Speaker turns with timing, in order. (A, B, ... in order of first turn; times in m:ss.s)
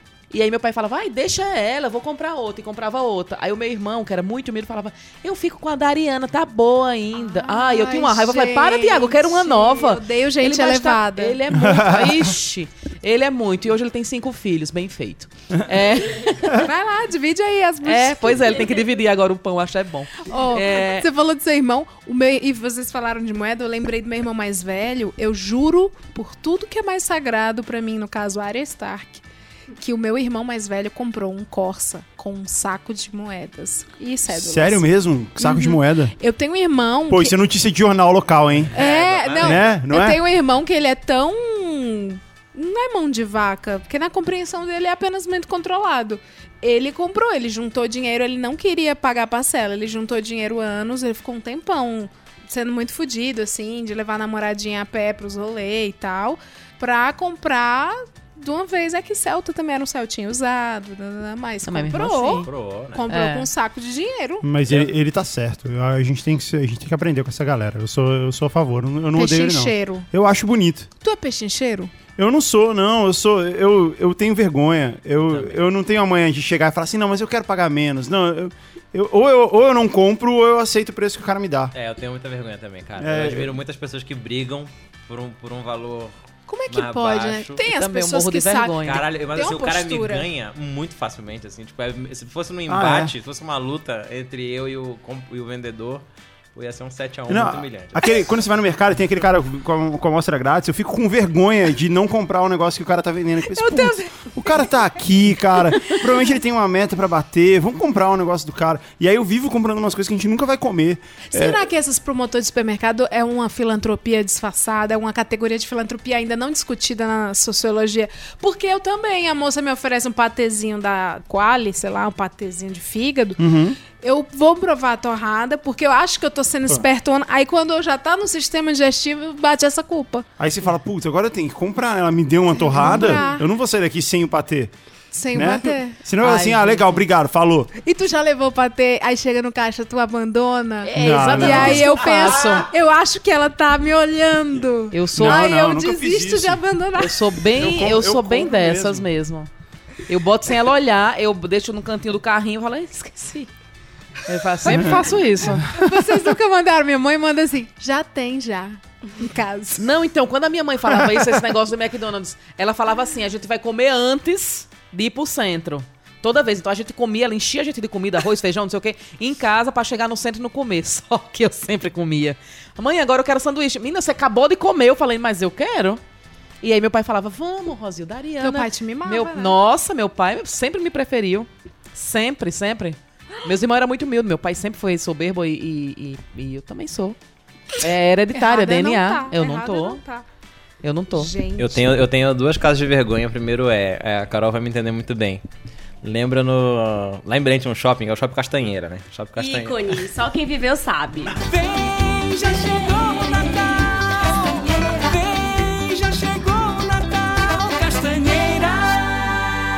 0:00.3-0:16.6 A
0:07.2-0:11.4 B
0:11.5-0:12.3 C
0:16.6-0:18.6 B
0:17.8-0:21.0 A
0:20.3-0:29.2 B
0:29.8-0:34.9 B
0:34.3-0:36.1 C
0:35.4-0:37.4 B
0:37.1-0:38.7 C
0:38.7-0:39.6 D
0:38.8-1:04.5 B
0:39.4-0:40.2 C
1:01.6-1:02.5 A
1:02.4-1:03.1 D
1:03.1-1:03.5 A
1:04.4-1:10.9 C
1:04.7-1:04.9 D
1:09.2-1:10.1 B
1:11.0-1:11.9 B
1:12.2-1:21.7 C
1:15.3-1:15.6 D
1:21.7-1:26.2 D
1:23.0-1:23.5 C
1:26.5-1:30.3 B
1:26.7-1:27.6 D
1:27.7-1:29.0 A
1:28.8-1:36.0 D
1:32.7-1:33.1 C
1:36.6-1:38.1 D
1:37.3-1:51.6 C
1:43.5-1:44.7 B
1:45.8-1:46.0 B
1:51.3-2:10.3 B
2:03.4-2:03.8 C
2:10.4-2:14.7 C
2:12.6-2:13.4 B
2:15.1-2:16.0 B
2:15.3-2:17.7 C
2:16.2-2:17.0 A
2:17.8-2:27.4 B
2:20.8-2:22.7 A
2:21.0-2:22.0 C
2:24.9-2:25.5 A
2:25.1-2:26.6 C
2:27.0-2:29.5 A
2:27.5-2:29.1 C
2:30.1-2:33.4 A
2:33.2-2:33.5 B
2:34.3-2:35.6 A
2:34.7-2:39.8 B
2:39.8-2:56.0 A
2:56.6-3:07.2 A
2:58.4-2:59.6 B
3:07.8-3:10.0 A
3:08.3-3:10.2 B
3:10.8-3:11.3 A
3:11.1-3:12.0 B
3:11.6-3:15.4 D
3:16.0-3:20.0 D
3:19.4-3:21.4 E
3:21.6-3:24.5 F
3:24.8-3:25.1 E
3:25.1-3:29.0 F